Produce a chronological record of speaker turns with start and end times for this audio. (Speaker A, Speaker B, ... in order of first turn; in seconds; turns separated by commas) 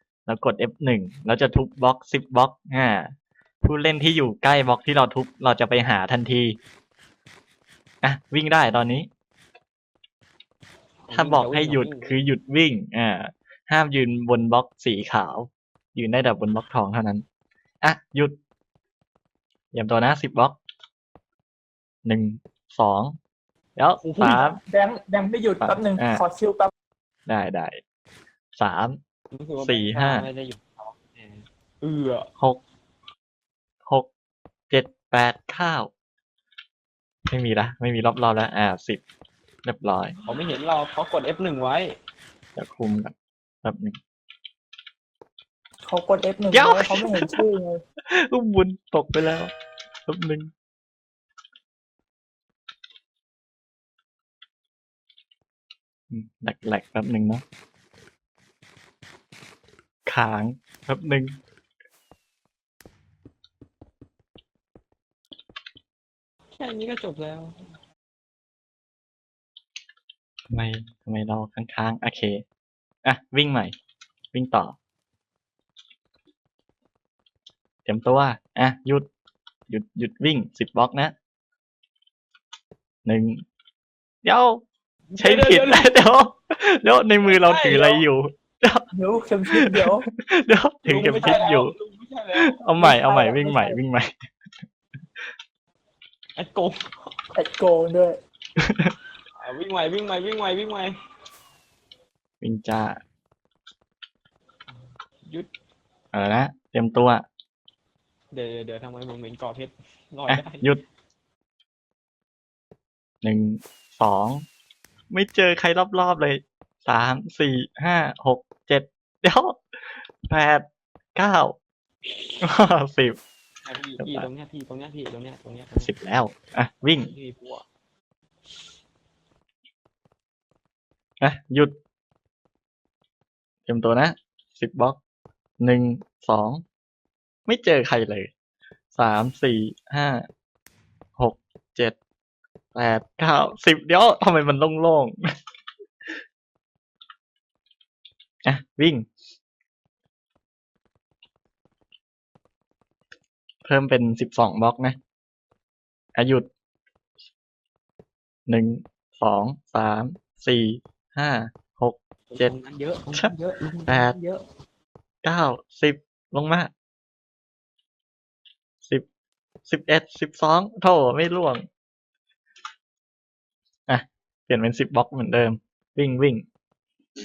Speaker A: 0.3-3.1, Speaker A: 3.6-6.6, Speaker A: 8.0-9.1, Speaker B: 11.1-12.1, Speaker A: 11.1-17.2, Speaker A: 17.8-18.3, Speaker A: 19.7-20.6, Speaker A: 22.1-23.2, Speaker A: 23.8-24.6, Speaker C: 24.2-26.7, Speaker A: 25.6-26.2, Speaker A: 27.3-27.8, Speaker A: 28.6-29.0, Speaker B: 29.3-32.3, Speaker A: 29.6-30.3, Speaker A: 34.7-35.9, Speaker A: 37.3-39.0, Speaker A: 39.6-40.1, Speaker B: 40.2-42.0, Speaker A: 42.6-44.0, Speaker C: 45.9-47.8, Speaker A: 46.5-47.4, Speaker A: 48.1-49.5, Speaker A: 50.1-50.5, Speaker A: 56.1-57.4, Speaker A: 60.1-61.4, Speaker B: 66.6-67.6, Speaker A: 70.5-72.4, Speaker A: 73.0-73.7, Speaker A: 74.3-74.8, Speaker A: 77.9-79.1, Speaker A: 79.7-81.1, Speaker A: 83.1-83.4, Speaker A: 84.2-84.6, Speaker B: 85.1-85.9, Speaker A: 85.2-88.9, Speaker B: 87.2-88.0, Speaker C: 88.9-90.1, Speaker A: 89.5-91.7, Speaker B: 90.8-92.6, Speaker A: 92.4-94.3, Speaker C: 92.8-93.8, Speaker B: 96.4-97.1, Speaker C: 97.3-98.2, Speaker A: 98.6-98.9, Speaker B: 99.4-100.9, Speaker A: 102.4-103.0, Speaker A: 106.1-107.2, Speaker B: 108.3-110.7, Speaker A: 110.3-110.8, Speaker A: 113.2-114.5, Speaker A: 115.1-119.6, Speaker A: 120.2-121.6, Speaker A: 122.4-123.2, Speaker B: 123.6-125.9, Speaker A: 124.0-124.3, Speaker A: 125.8-127.1, Speaker B: 127.0-127.6, Speaker A: 131.2-131.7, Speaker A: 133.7-135.0, Speaker A: 135.6-136.6, Speaker A: 137.5-138.3, Speaker A: 138.9-140.2, Speaker A: 141.2-142.0, Speaker A: 142.8-145.2, Speaker A: 148.4-149.1, Speaker A: 153.7-155.0, Speaker A: 156.2-156.5, Speaker A: 158.5-162.5, Speaker B: 162.3-164.4, Speaker A: 163.9-164.2, Speaker A: 165.2-166.7, Speaker A: 169.7-171.7, Speaker A: 173.9-176.4